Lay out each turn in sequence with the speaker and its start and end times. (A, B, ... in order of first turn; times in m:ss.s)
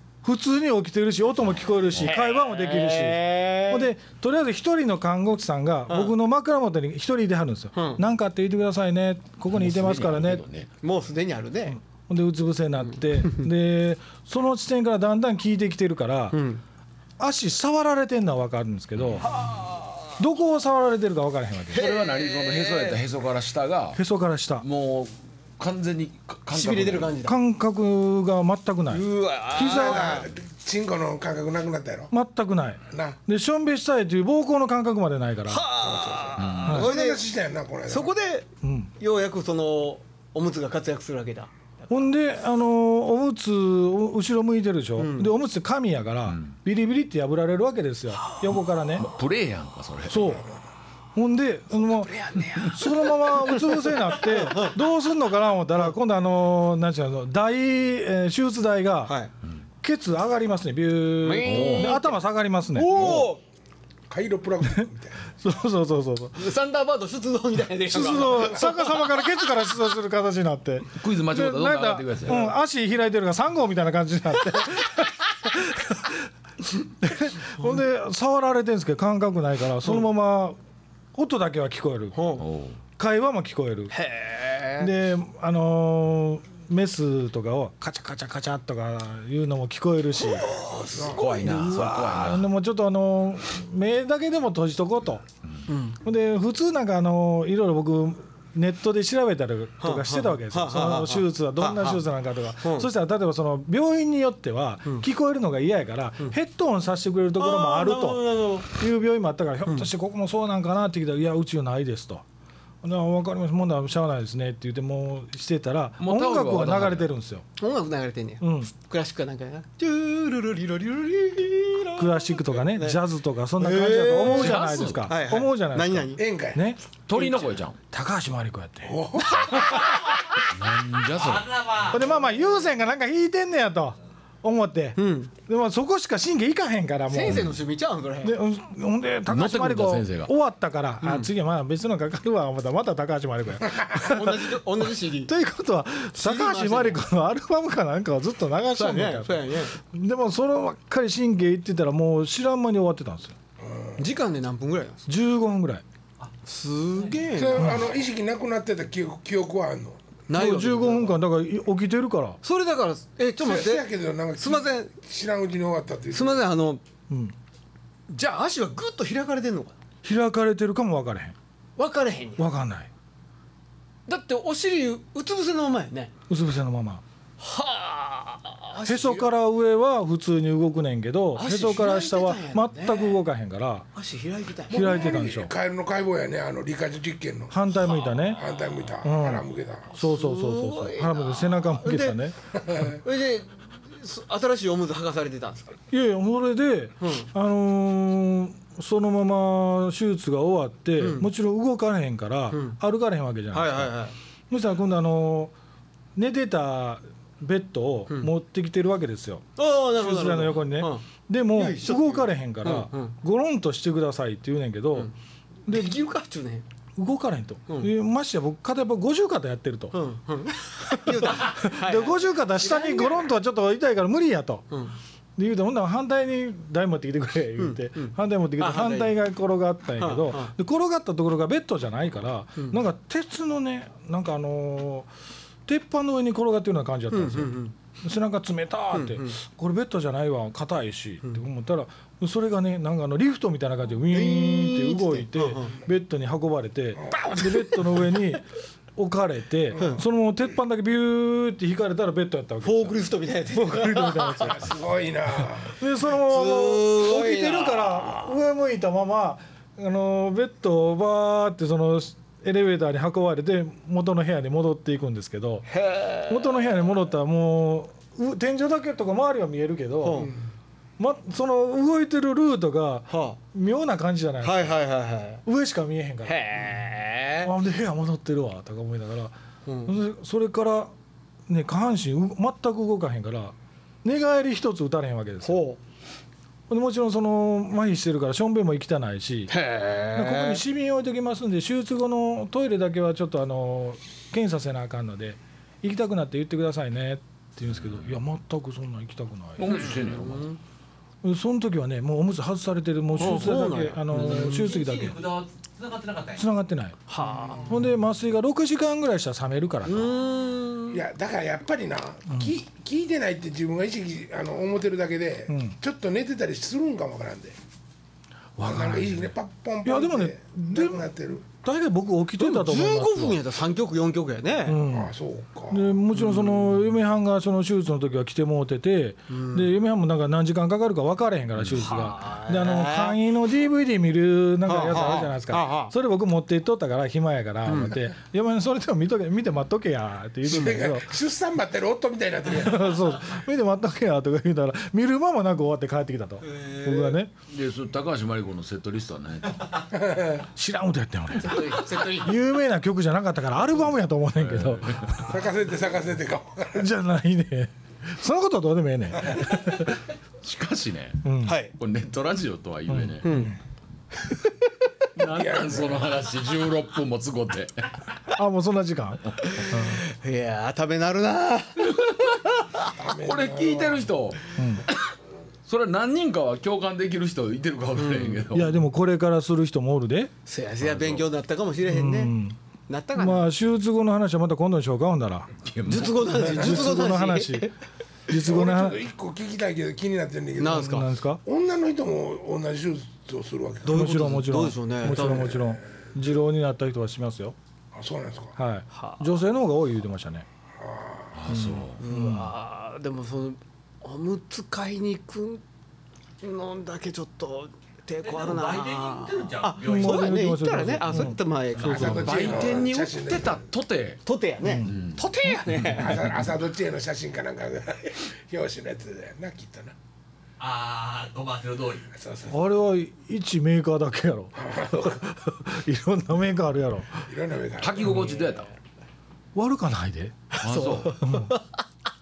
0:00.2-0:10.4 A
0:02.0-0:03.9 B
0:05.9-0:06.1 B
0:07.7-0:08.0 B
0:09.5-0:10.7 C
0:10.8-0:11.8 B
0:11.9-0:16.4 A
0:16.3-0:16.6 B
0:17.2-0:19.3 A
0:19.2-0:20.2 B
0:20.2-0:21.8 A
0:21.7-0:23.0 B
0:21.7-0:24.0 C
0:23.9-0:24.6 A
0:24.6-0:27.2 C
0:26.5-0:27.4 B
0:27.2-0:30.3 A
0:28.9-0:30.3 B
0:29.6-0:32.1 D
0:32.1-0:35.6 A
0:32.9-0:33.2 D
0:35.5-0:37.2 B
0:35.8-0:38.1 D
0:36.4-0:36.9 C
0:36.7-0:37.0 A
0:37.9-0:38.5 B
0:38.6-0:38.9 A
0:39.0-0:42.0 B
0:41.9-0:49.1 A
0:45.0-0:45.3 B
0:46.3-0:46.5 C
0:48.9-0:50.4 C
0:50.1-0:50.5 A
0:51.1-0:59.1 A
0:51.8-0:54.8 B
0:59.0-0:59.3 B
0:59.8-1:03.3 A
1:01.2-1:02.2 B
1:01.4-1:02.0 C
1:02.7-1:03.4 B
1:04.1-1:05.2 D
1:05.4-1:06.4 A
1:06.4-1:09.4 B
1:07.9-1:16.3 A
1:10.9-1:12.4 C
1:17.0-1:20.6 A
1:21.1-1:22.3 A
1:22.1-1:22.4 B
1:22.4-1:22.8 C
1:23.0-1:23.9 A
1:23.9-1:24.9 B
1:24.8-1:30.6 A
1:30.2-1:32.1 B
1:30.9-1:31.3 D
1:31.1-1:32.5 C
1:31.4-1:35.2 A
1:35.7-1:36.0 B
1:36.0-1:52.2 A
1:39.8-1:42.0 B
1:42.6-1:42.9 B
1:47.4-1:48.7 B
1:52.8-1:57.4 A
1:56.0-1:57.1 C
1:57.6-2:03.0 B
1:58.4-1:58.7 A
2:02.0-2:06.8 A
2:03.6-2:06.2 B
2:04.3-2:05.1 C
2:06.2-2:06.6 D
2:07.1-2:07.8 C
2:07.2-2:07.5 B
2:07.9-2:09.6 A
2:08.8-2:09.8 D
2:09.4-2:09.8 B
2:10.5-2:11.5 C
2:11.2-2:12.1 E
2:11.9-2:17.5 A
2:15.0-2:15.3 B
2:17.1-2:18.4 B
2:17.3-2:17.6 C
2:18.2-2:33.4 A
2:19.3-2:20.3 C
2:21.0-2:21.3 B
2:23.9-2:25.3 B
2:26.1-2:27.0 B
2:28.8-2:29.8 B
2:33.6-2:34.0 D
2:34.0-2:35.1 B
2:35.0-2:35.8 A
2:36.4-2:37.8 B
2:37.0-2:37.2 E
2:37.3-2:40.0 D
2:37.6-2:37.8 A
2:40.3-2:41.2 B
2:40.3-2:42.4 A
2:42.4-2:44.9 B
2:43.4-2:46.4 D
2:46.1-2:46.8 B
2:47.1-2:47.3 A
2:48.1-2:49.8 B
2:50.0-2:51.3 A
2:51.8-2:52.5 B
2:52.4-2:52.9 A
2:54.1-2:56.1 B
2:56.3-2:57.0 A
2:57.4-2:59.3 B
2:58.8-3:03.9 A
3:01.4-3:03.2 B
3:03.9-3:05.2 B
3:04.7-3:07.6 D
3:04.7-3:05.5 A
3:07.5-3:08.4 A
3:08.3-3:09.9 D
3:09.0-3:12.4 A
3:10.0-3:12.2 B
3:12.6-3:13.0 D
3:13.0-3:15.8 B
3:15.9-3:23.9 A
3:17.0-3:17.3 B
3:21.0-3:21.3 B
3:22.5-3:22.8 B
3:23.5-3:24.1 B
3:24.5-3:25.5 A
3:26.2-3:35.1 A
3:29.6-3:33.1 B
3:35.6-3:36.6 B
3:37.0-3:40.0 A
3:39.9-3:43.3 B
3:40.9-3:44.7 A
3:45.4-3:55.1 A
3:47.6-3:49.2 B
3:50.0-3:50.5 B
3:55.7-4:08.4 A
3:57.1-3:57.7 B
3:58.9-3:59.4 B
4:04.1-4:05.8 B
4:07.0-4:07.3 D
4:07.2-4:08.1 B
4:09.0-4:13.0 A
4:09.7-4:10.0 B
4:12.6-4:14.7 B
4:13.6-4:14.7 A
4:14.4-4:15.8 D
4:15.6-4:25.7 A
4:16.1-4:18.4 B
4:25.7-4:26.8 B
4:26.3-4:30.3 A
4:30.0-4:30.3 B
4:31.0-4:34.8 A
4:33.1-4:33.4 B
4:34.4-4:35.4 B
4:35.4-4:36.7 A
4:36.2-4:37.5 B
4:37.4-4:39.3 A
4:39.6-4:40.0 B
4:39.8-4:40.9 A
4:41.5-4:45.6 A
4:45.4-4:45.8 B
4:46.7-4:49.5 A
4:49.5-4:50.6 B
4:50.1-4:59.8 A
4:59.6-5:00.5 C
4:59.6-5:00.6 B
5:01.2-5:05.2 A
5:03.2-5:04.8 B
5:04.1-5:06.4 E
5:06.4-5:07.0 A
5:07.1-5:07.8 B
5:07.4-5:07.9 E
5:07.6-5:10.1 A
5:09.8-5:11.0 B
5:10.9-5:17.6 D
5:12.3-5:12.5 A
5:15.5-5:15.8 A
5:18.6-5:23.4 A
5:18.6-5:21.4 D
5:22.4-5:24.8 B
5:24.6-5:25.1 A
5:24.9-5:25.9 D
5:25.7-5:41.2 A
5:26.1-5:26.8 B
5:29.3-5:29.7 B
5:31.8-5:33.2 B
5:34.6-5:35.9 B
5:37.6-5:38.0 B
5:40.4-5:43.0 D
5:40.5-5:40.7 B
5:42.5-5:47.3 A
5:46.4-5:47.2 B
5:47.5-5:49.8 C
5:49.9-5:50.4 D
5:50.5-5:55.2 A
5:51.4-5:52.3 B
5:54.4-5:55.2 C
5:55.2-5:56.9 D
5:56.7-6:00.0 A
6:00.4-6:03.5 C
6:01.2-6:01.6 A
6:01.4-6:01.7 B
6:02.9-6:03.6 A
6:03.2-6:03.5 B
6:05.2-6:07.9 C
6:05.2-6:06.2 D
6:08.3-6:10.0 A
6:09.5-6:12.9 B
6:12.9-6:14.1 D
6:13.1-6:15.0 C
6:14.5-6:14.8 A
6:15.6-6:18.8 C
6:18.0-6:18.4 B
6:18.5-6:20.3 A
6:20.4-6:22.3 B
6:20.8-6:21.3 C
6:21.9-6:22.6 A
6:22.9-6:23.5 B
6:23.2-6:27.7 A
6:25.6-6:26.2 C
6:25.9-6:27.7 B
6:26.6-6:26.8 D
6:28.3-6:29.0 A
6:28.3-6:30.9 D
6:30.6-6:31.1 B
6:30.7-6:31.4 A
6:31.4-6:34.0 D
6:33.8-6:35.6 B
6:33.8-6:37.6 A
6:35.1-6:35.7 D
6:37.9-6:38.5 D
6:38.6-6:40.4 A
6:38.9-6:39.4 B
6:40.8-6:41.3 D
6:41.3-6:42.0 C
6:41.5-6:42.5 A
6:42.0-6:45.6 B
6:46.4-6:52.8 B
6:48.2-6:50.4 E
6:49.8-6:52.3 A
6:51.8-6:53.6 D
6:51.9-6:54.2 C
6:54.2-6:56.2 B
6:54.6-6:54.9 A
6:54.8-6:55.2 C
6:55.5-6:56.2 A
6:56.0-6:59.9 D
7:00.6-7:02.1 E
7:02.1-7:02.6 D
7:02.5-7:07.3 A
7:04.6-7:05.2 D
7:07.3-7:08.2 D
7:07.8-7:08.7 C
7:09.5-7:10.4 A
7:10.5-7:11.8 B
7:10.6-7:11.3 C
7:11.2-7:11.5 A